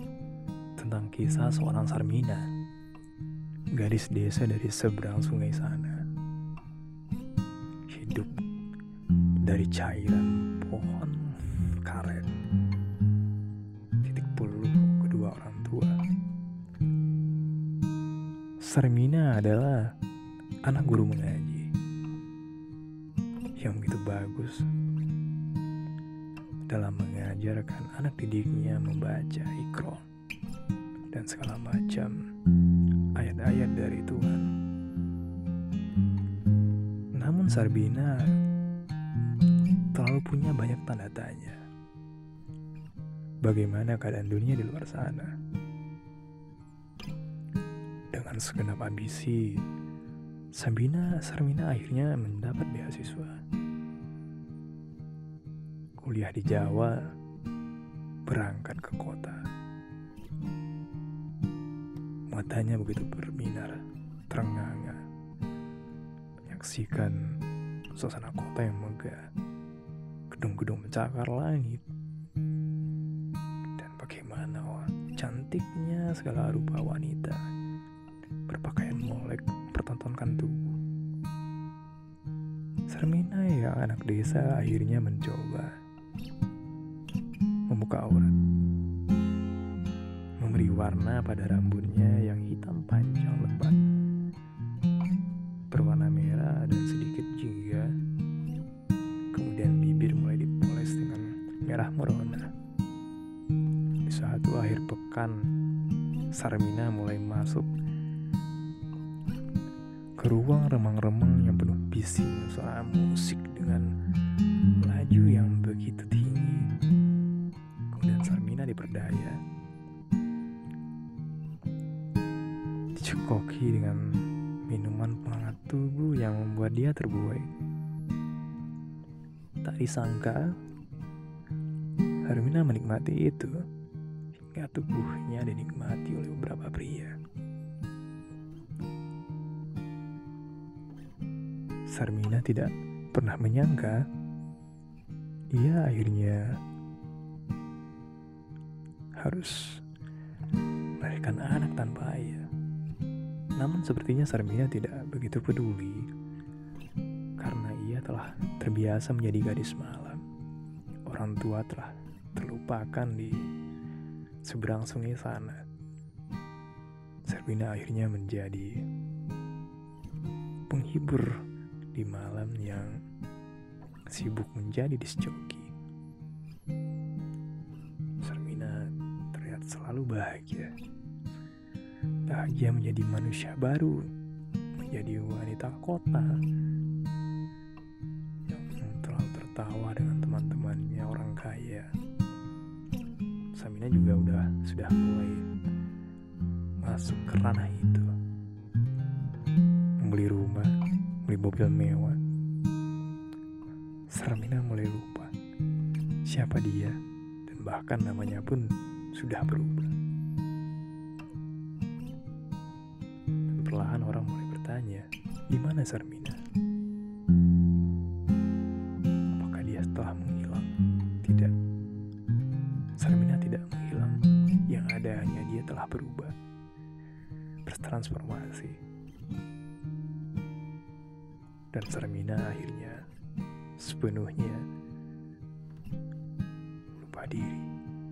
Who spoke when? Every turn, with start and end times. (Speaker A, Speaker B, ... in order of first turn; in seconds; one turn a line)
Speaker A: 0.8-2.5
Speaker A: 3.7-6.0
Speaker A: 7.9-8.3
Speaker A: 9.4-12.3
Speaker A: 14.0-15.9
Speaker A: 18.6-19.8
Speaker A: 20.6-21.7
Speaker A: 23.6-24.6
Speaker A: 26.7-30.0
Speaker A: 31.1-32.1
Speaker A: 33.2-34.5
Speaker A: 37.1-38.2
Speaker A: 39.9-41.6
Speaker A: 43.4-45.3
Speaker A: 48.1-49.6
Speaker A: 50.5-53.4
Speaker A: 56.0-57.0
Speaker A: 58.2-59.4
Speaker A: 62.3-65.0
Speaker A: 66.5-67.2
Speaker A: 67.9-69.3
Speaker A: 70.3-71.8
Speaker A: 73.8-77.4
Speaker A: 78.5-80.8
Speaker A: 82.9-85.7
Speaker A: 87.7-88.3
Speaker A: 90.4-93.8
Speaker A: 95.7-97.9
Speaker A: 99.3-102.5
Speaker A: 104.0-105.3
Speaker A: 106.3-107.7
Speaker A: 110.2-113.9
Speaker A: 114.8-116.7
Speaker A: 117.9-119.4
Speaker A: 122.9-127.5
Speaker A: 129.6-130.5
Speaker A: 132.3-133.5
Speaker A: 134.4-137.1
Speaker A: 141.9-144.0
Speaker A: 145.5-146.4
Speaker A: 149.2-149.8
Speaker A: 151.0-152.5
Speaker A: 153.6-156.1
Speaker A: 157.4-160.2
Speaker A: 161.1-163.4
Speaker A: 164.4-165.6
Speaker A: 167.2-168.8
Speaker A: 170.7-171.3
Speaker A: 171.9-172.9
Speaker A: 174.1-175.7
Speaker A: 178.2-180.7
Speaker A: 182.3-184.0
Speaker A: 184.8-186.4
Speaker A: 188.5-191.9
Speaker A: 193.6-195.4
Speaker A: 196.8-198.1
Speaker A: 200.0-200.7
Speaker A: 201.2-202.2
Speaker A: 204.1-205.3
Speaker A: 206.3-209.9
Speaker A: 213.5-216.4
Speaker A: 219.3-220.7
Speaker A: 221.2-221.5
Speaker A: 223.0-224.2
Speaker A: 224.7-226.3
Speaker A: 227.7-228.8
Speaker A: 231.7-233.0
Speaker A: 233.8-234.6
Speaker A: 236.9-237.7